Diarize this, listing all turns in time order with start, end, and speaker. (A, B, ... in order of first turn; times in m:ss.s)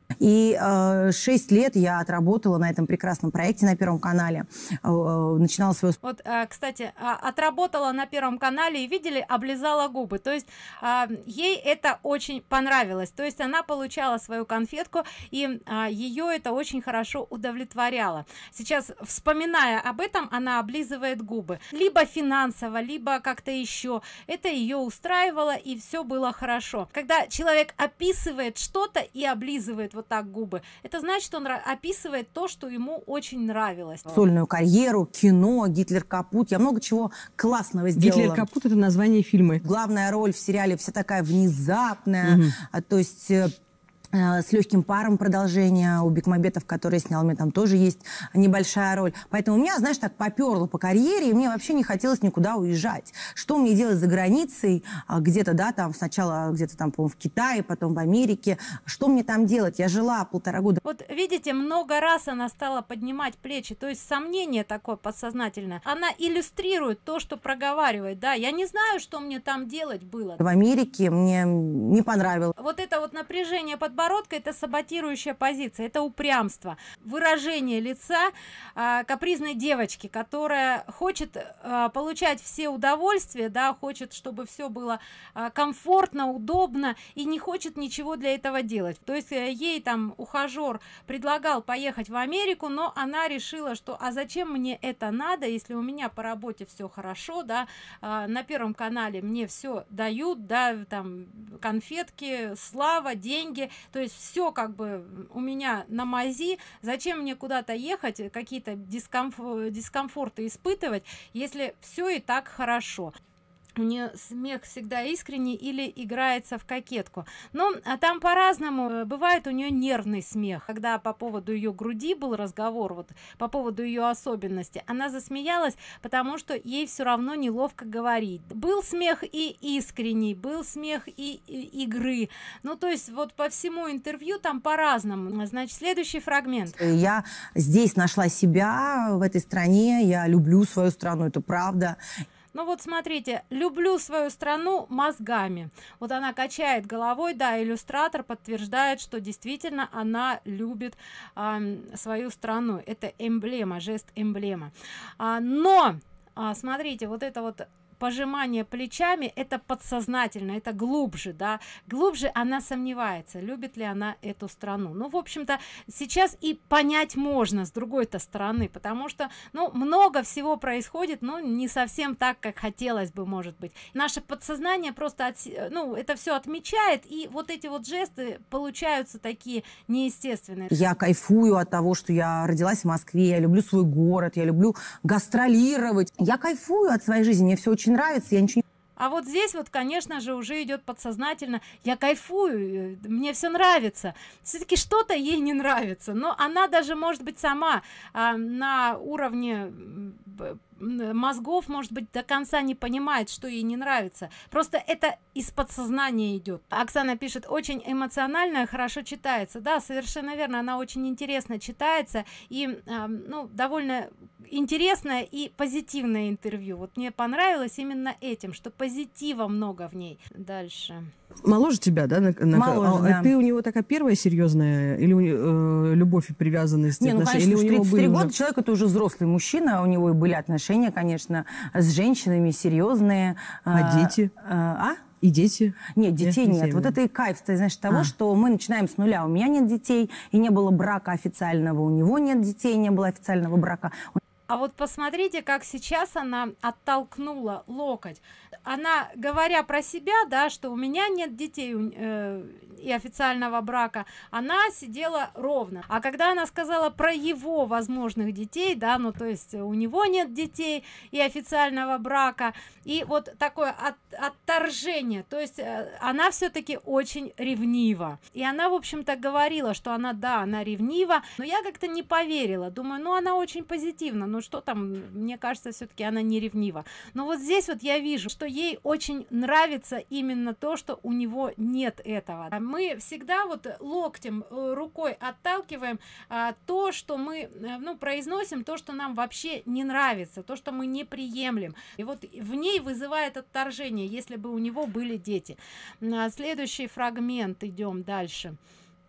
0:00.2-0:06.0 A
0:06.0-0:34.2 B
0:34.1-0:38.4 A
0:38.0-0:39.6 C
0:39.6-0:43.5 A
0:42.2-0:42.5 C
0:44.1-1:00.8 A
1:00.8-1:10.4 B
1:10.4-1:12.5 A
1:12.6-1:53.1 B
1:53.8-2:16.8 B
2:16.8-2:22.0 A
2:22.5-3:00.8 B
3:00.7-3:08.6 A
3:09.0-3:41.1 B
3:41.4-3:48.3 C
3:42.5-3:43.3 A
3:47.0-3:55.0 A
3:53.7-3:54.3 C
3:55.2-3:56.9 C
3:55.9-4:04.2 A
4:04.5-4:58.6 B